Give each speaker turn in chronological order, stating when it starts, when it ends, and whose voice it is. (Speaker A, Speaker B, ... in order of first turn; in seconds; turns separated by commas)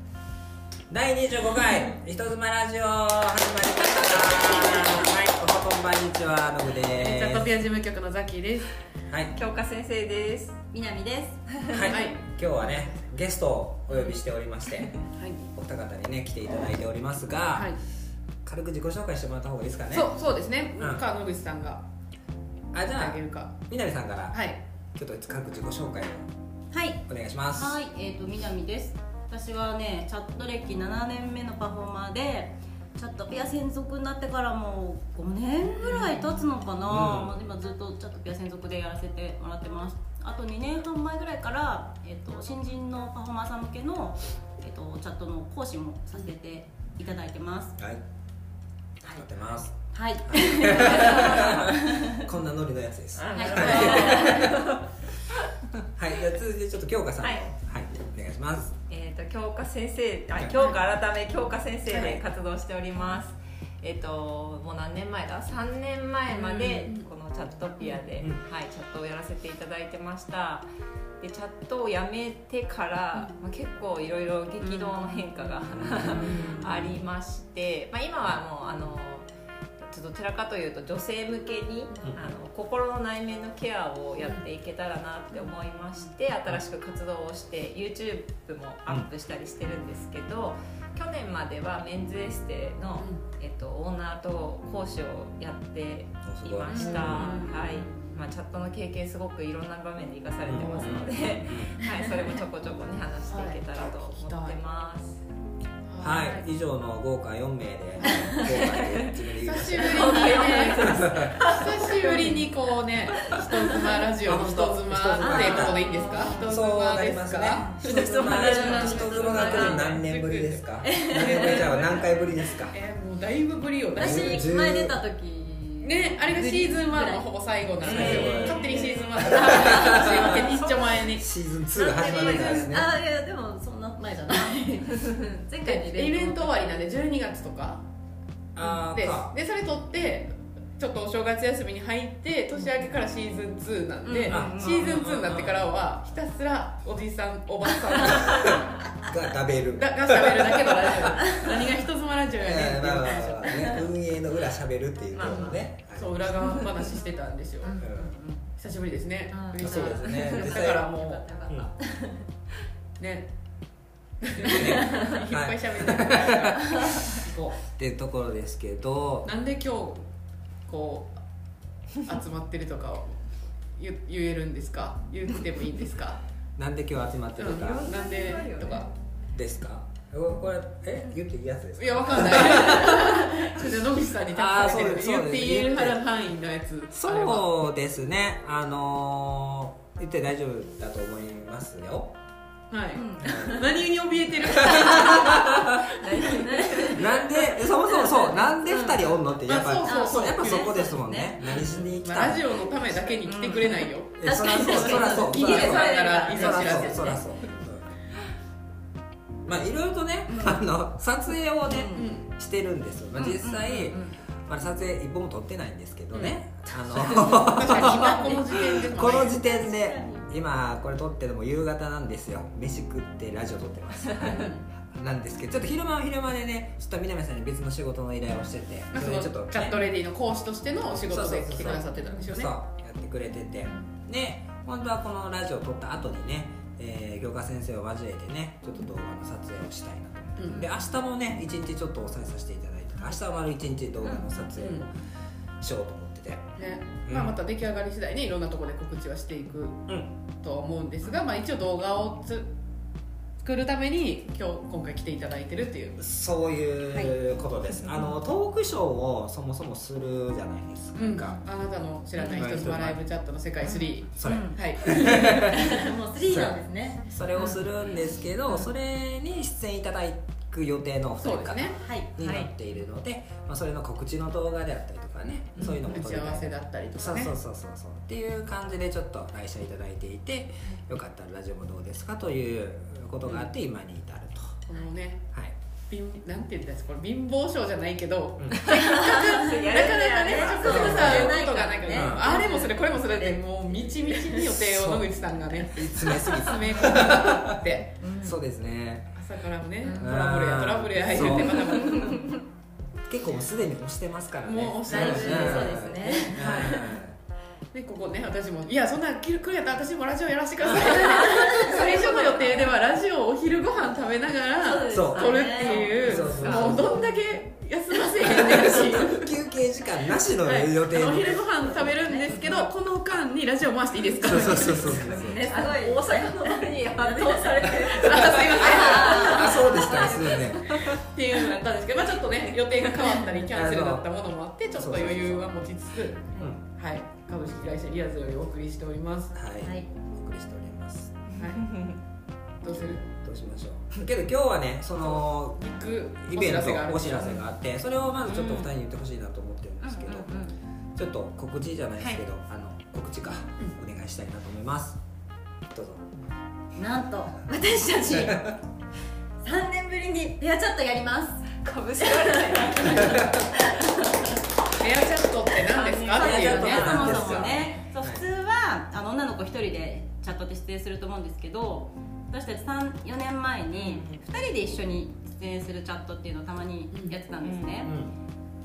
Speaker A: 0.9-7.5, Speaker B: 6.9-8.7, Speaker C: 9.3-10.6, Speaker D: 10.7-11.4, Speaker C: 11.5-11.9, Speaker A: 11.7-15.0, Speaker B: 11.9-12.9, Speaker B: 15.2-15.5, Speaker A: 15.5-17.8, Speaker A: 18.4-20.1, Speaker B: 19.9-21.8, Speaker A: 20.8-21.0, Speaker A: 22.7-24.4, Speaker B: 22.9-23.5, Speaker B: 24.3-24.6, Speaker A: 24.9-26.3, Speaker D: 26.7-27.0, Speaker A: 27.1-27.8, Speaker D: 27.6-47.8, Speaker A: 36.9-37.4, Speaker A: 47.8-48.0, Speaker A: 49.1-49.7, Speaker D: 49.9-52.3, Speaker A: 50.3-54.6, Speaker C: 50.8-51.4, Speaker C: 53.2-55.5, Speaker D: 53.3-54.5, Speaker A: 55.8-58.8, Speaker C: 58.9-70.7, Speaker A: 61.9-62.2, Speaker D: 66.4-67.0, Speaker C: 71.2-79.3, Speaker D: 74.6-75.4, Speaker A: 75.7-76.4, Speaker D: 76.0-76.6, Speaker B: 76.2-76.8, Speaker C: 79.9-105.2, Speaker A: 96.2-97.3, Speaker B: 96.7-97.6, Speaker D: 96.9-98.1, Speaker A: 100.5-101.8, Speaker B: 103.3-104.6, Speaker B: 105.9-106.5, Speaker A: 106.0-111.5, Speaker D: 108.1-108.7, Speaker B: 109.3-122.1, Speaker C: 109.8-112.4, Speaker D: 110.1-110.8, Speaker C: 113.4-113.8, Speaker A: 114.2-115.8, Speaker D: 115.2-116.5, Speaker A: 116.4-122.8, Speaker D: 117.7-120.0, Speaker C: 118.4-119.0, Speaker D: 120.8-121.7, Speaker B: 122.7-124.5, Speaker D: 124.0-130.7, Speaker A: 124.0-125.0, Speaker B: 125.8-131.3, Speaker A: 127.8-128.7, Speaker C: 127.9-129.6, Speaker A: 129.2-130.6, Speaker A: 131.2-132.9, Speaker C: 131.7-132.8, Speaker D: 132.0-136.8, Speaker B: 135.6-137.8, Speaker A: 138.6-139.3, Speaker B: 138.8-148.8, Speaker D: 144.0-144.8, Speaker A: 144.3-145.7, Speaker A: 148.0-151.3, Speaker B: 149.8-153.8, Speaker A: 152.4-156.3, Speaker C: 155.1-155.6, Speaker B: 155.2-157.8, Speaker D: 157.8-158.4, Speaker A: 157.8-158.1, Speaker B: 158.6-161.3, Speaker D: 159.3-162.2, Speaker A: 159.6-160.9, Speaker A: 161.5-161.7, Speaker B: 163.0-163.3, Speaker B: 164.2-167.6, Speaker A: 164.4-169.3, Speaker B: 169.2-170.1, Speaker B: 170.7-171.2, Speaker B: 172.0-176.2, Speaker A: 176.6-177.9, Speaker B: 177.4-178.9, Speaker C: 177.6-178.9, Speaker A: 179.3-183.6, Speaker B: 181.8-187.5, Speaker A: 184.3-186.0, Speaker A: 186.9-192.1, Speaker B: 192.7-196.9, Speaker D: 192.9-193.6, Speaker A: 193.2-193.7, Speaker A: 194.5-195.9, Speaker C: 196.0-197.0, Speaker D: 196.1-199.1, Speaker A: 196.9-203.2, Speaker C: 198.7-199.0, Speaker B: 199.5-200.9, Speaker D: 199.8-201.9, Speaker B: 201.6-207.2, Speaker D: 203.2-207.2, Speaker A: 204.2-208.0, Speaker C: 206.0-206.2, Speaker A: 209.5-229.8, Speaker D: 210.3-210.6, Speaker D: 211.7-212.1, Speaker B: 211.9-212.2, Speaker D: 213.2-214.2, Speaker D: 216.9-220.3, Speaker B: 217.1-219.4, Speaker D: 224.3-224.6, Speaker B: 228.9-232.6, Speaker A: 231.1-244.9, Speaker B: 240.4-240.7, Speaker B: 244.6-244.9, Speaker A: 245.6-246.5, Speaker B: 246.6-249.9, Speaker A: 247.1-247.4, Speaker B: 250.4-252.5, Speaker B: 253.4-256.0, Speaker A: 256.0-261.4, Speaker B: 261.0-265.9, Speaker A: 262.3-263.0, Speaker A: 264.1-284.6, Speaker D: 264.2-267.6, Speaker B: 271.2-271.8, Speaker D: 271.8-272.4, Speaker B: 275.6-277.3, Speaker B: 284.7-285.2, Speaker B: 285.9-297.9, Speaker C: 288.7-291.5, Speaker D: 288.8-289.6, Speaker D: 290.3-292.8, Speaker A: 290.7-291.4, Speaker A: 291.9-292.3, Speaker A: 294.4-295.1, Speaker A: 295.7-297.6, Speaker D: 298.0-298.4, Speaker A: 298.2-299.2, Speaker B: 299.2-302.4, Speaker A: 299.9-302.0, Speaker D: 301.2-302.4, Speaker A: 303.1-307.2, Speaker B: 304.4-306.8, Speaker D: 304.9-307.0, Speaker B: 307.7-319.3, Speaker D: 310.7-312.7, Speaker D: 314.6-316.8, Speaker A: 314.9-317.0, Speaker A: 318.2-321.4, Speaker B: 320.4-325.2, Speaker D: 321.6-322.4, Speaker A: 324.2-325.5, Speaker D: 324.3-330.5, Speaker C: 325.5-329.9, Speaker B: 327.9-339.3, Speaker A: 328.2-331.0, Speaker D: 333.0-333.4, Speaker A: 333.5-334.1, Speaker A: 334.7-335.5, Speaker A: 339.3-341.2, Speaker D: 339.6-339.9, Speaker B: 341.4-341.8, Speaker C: 341.6-342.0, Speaker B: 342.6-343.0, Speaker A: 342.7-345.6, Speaker B: 345.0-347.4, Speaker A: 346.2-355.0, Speaker C: 348.3-348.7, Speaker D: 349.8-350.5, Speaker A: 355.7-356.1, Speaker D: 356.8-358.6, Speaker A: 358.1-358.6, Speaker D: 359.4-364.4, Speaker C: 361.6-363.5, Speaker B: 364.8-367.6, Speaker D: 365.7-378.0, Speaker C: 365.7-367.7, Speaker A: 366.2-368.2, Speaker C: 373.7-374.2, Speaker C: 377.4-377.7, Speaker A: 377.8-378.1